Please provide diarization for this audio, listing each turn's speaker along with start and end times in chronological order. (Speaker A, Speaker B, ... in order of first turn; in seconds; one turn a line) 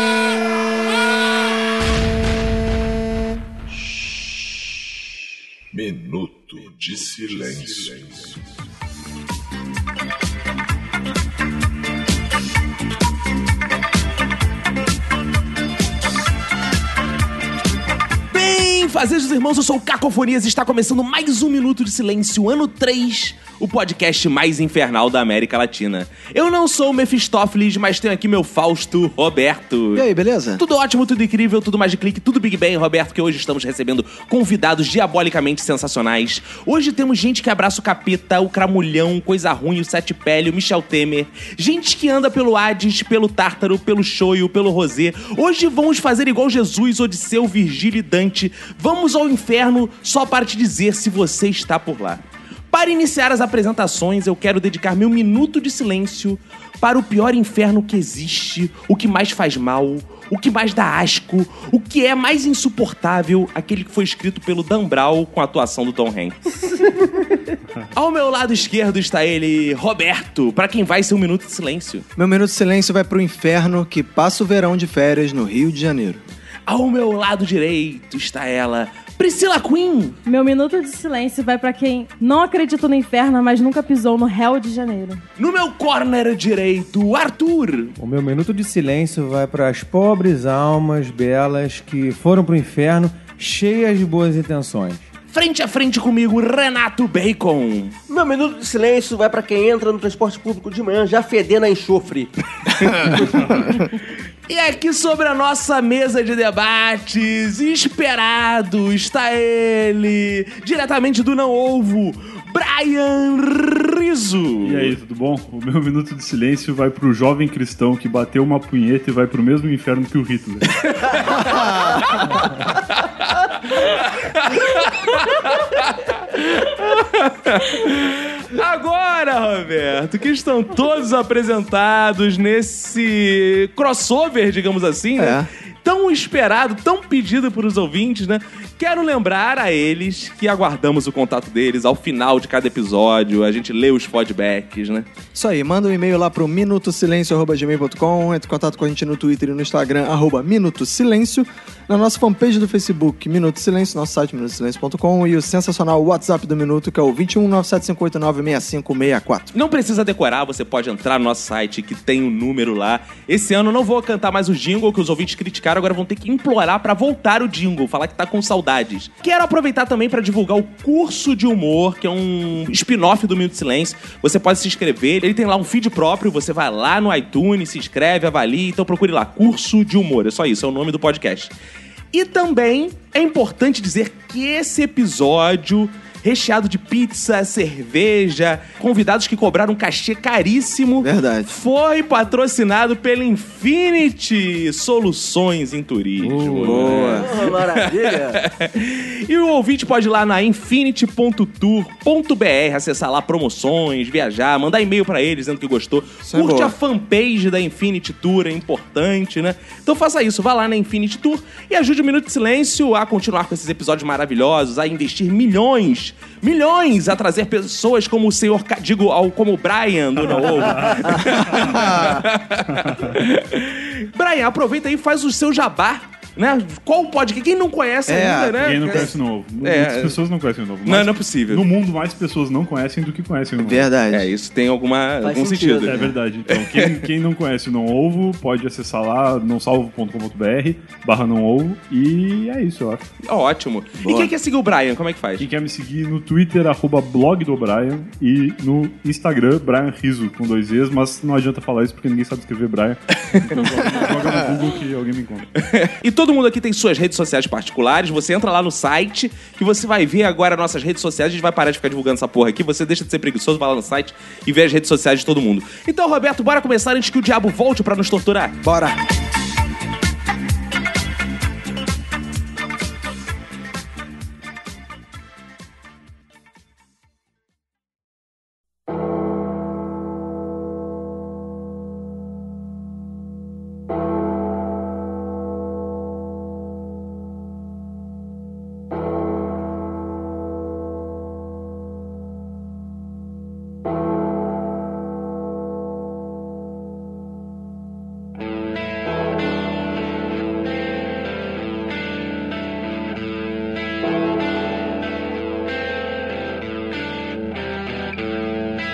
Speaker A: 5.7-8.4
Speaker B: 18.3-30.1
Speaker C: 29.9-30.6
Speaker B: 30.6-66.5
Speaker B: 67.9-72.0
Speaker C: 72.2-76.2
Speaker B: 76.7-80.2
Speaker D: 80.2-85.2
Speaker B: 85.4-87.9
Speaker E: 88.0-95.0
Speaker B: 95.3-98.0
Speaker F: 98.1-102.3
Speaker B: 104.5-114.9
Speaker G: 114.6-120.8
Speaker B: 121.0-145.1
Speaker C: 121.4-122.1
Speaker C: 135.2-135.5
Speaker C: 145.3-159.5
Speaker B: 159.5-181.5
Speaker B: 182.1-229.1
Speaker C: 191.0-191.5
Speaker G: 196.2-197.3
Speaker C: 196.6-197.4
Speaker F: 197.1-198.4
Speaker C: 206.2-206.7
Speaker G: 220.2-221.2
Speaker C: 221.2-222.2
Speaker G: 222.8-223.1
Speaker C: 228.1-229.1
Speaker G: 228.6-233.8
Speaker B: 229.6-230.2
Speaker B: 230.8-231.6
Speaker C: 233.6-234.3
Speaker B: 234.1-237.0
Speaker F: 235.2-236.1
Speaker G: 235.8-243.0
Speaker B: 243.2-245.4
Speaker C: 244.0-244.3
Speaker G: 245.4-255.5
Speaker B: 255.6-268.6
Speaker C: 268.6-269.0